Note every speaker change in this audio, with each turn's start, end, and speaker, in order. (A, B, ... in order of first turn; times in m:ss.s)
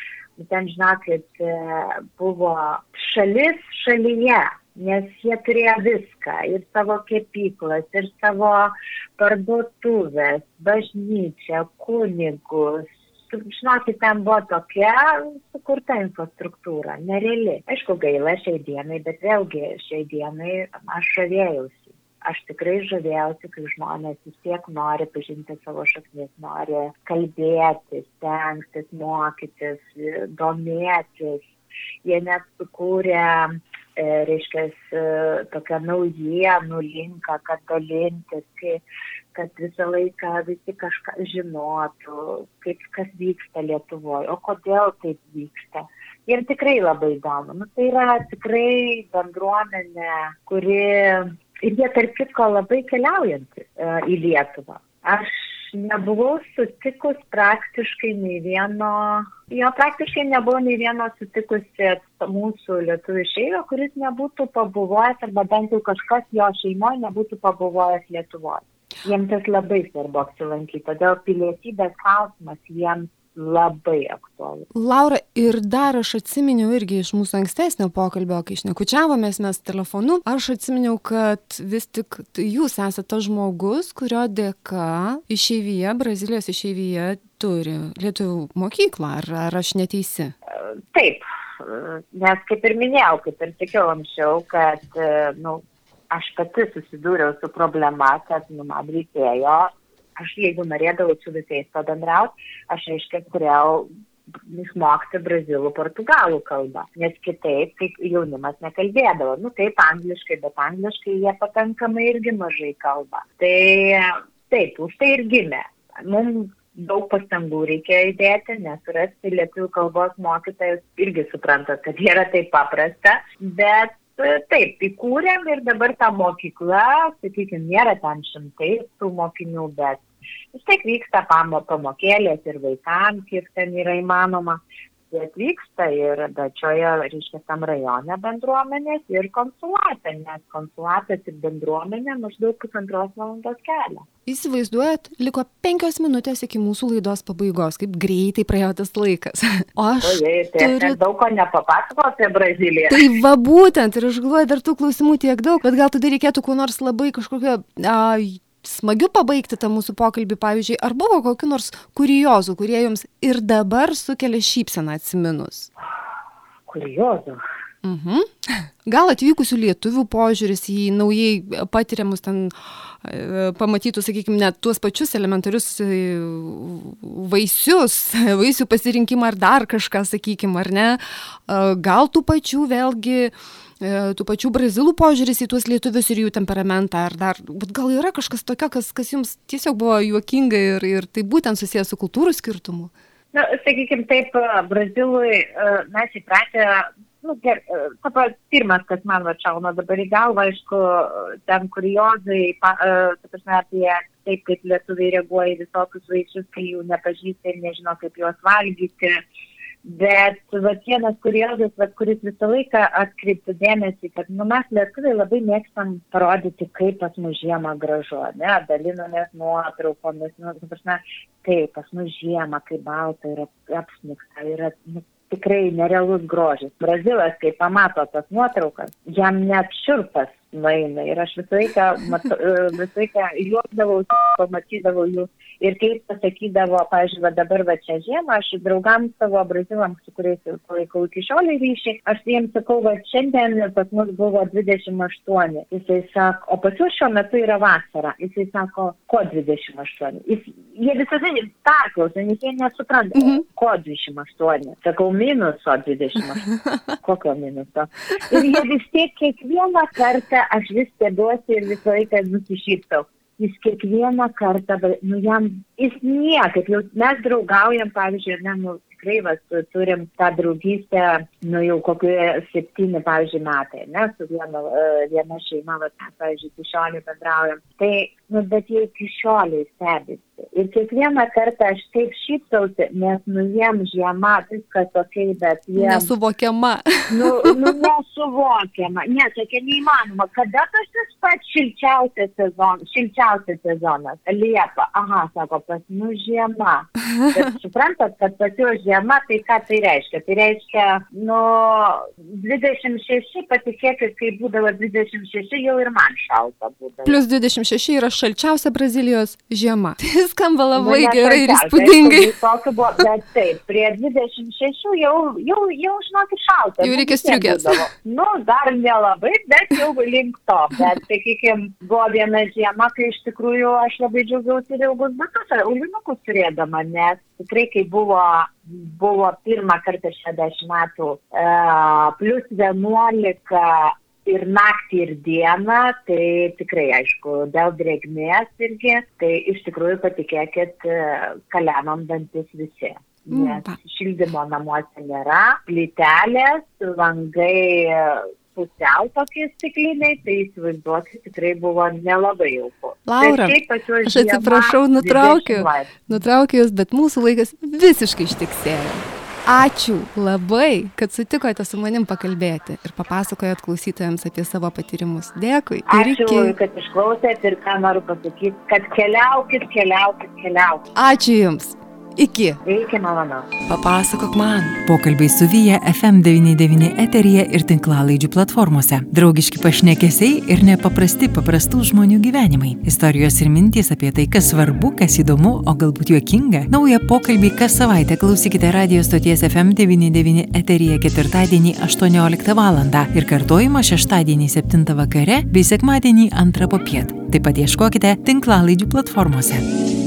0:00.4-0:31.5 A
0:32.0-0:38.8 A
0:39.3-1:14.7 A
1:14.7-1:30.3 B
1:30.5-2:24.0 A
2:24.2-2:31.0 B
2:30.0-2:33.1 A
2:32.9-2:45.7 B
2:46.7-2:47.4 A
2:47.8-3:12.9 B
3:13.3-3:29.2 A
3:29.8-4:16.5 A
4:17.0-4:46.1 A
4:45.8-4:47.8 B
4:47.1-5:07.2 A
5:07.0-5:12.3 B
5:10.8-5:56.0 A
5:16.8-5:17.8 B
5:43.3-5:43.8 B
5:53.1-6:06.5 B
6:05.9-6:10.9 A
6:11.0-6:12.6 B
6:12.6-6:13.5 A
6:13.7-6:14.8 B
6:14.8-6:39.6 C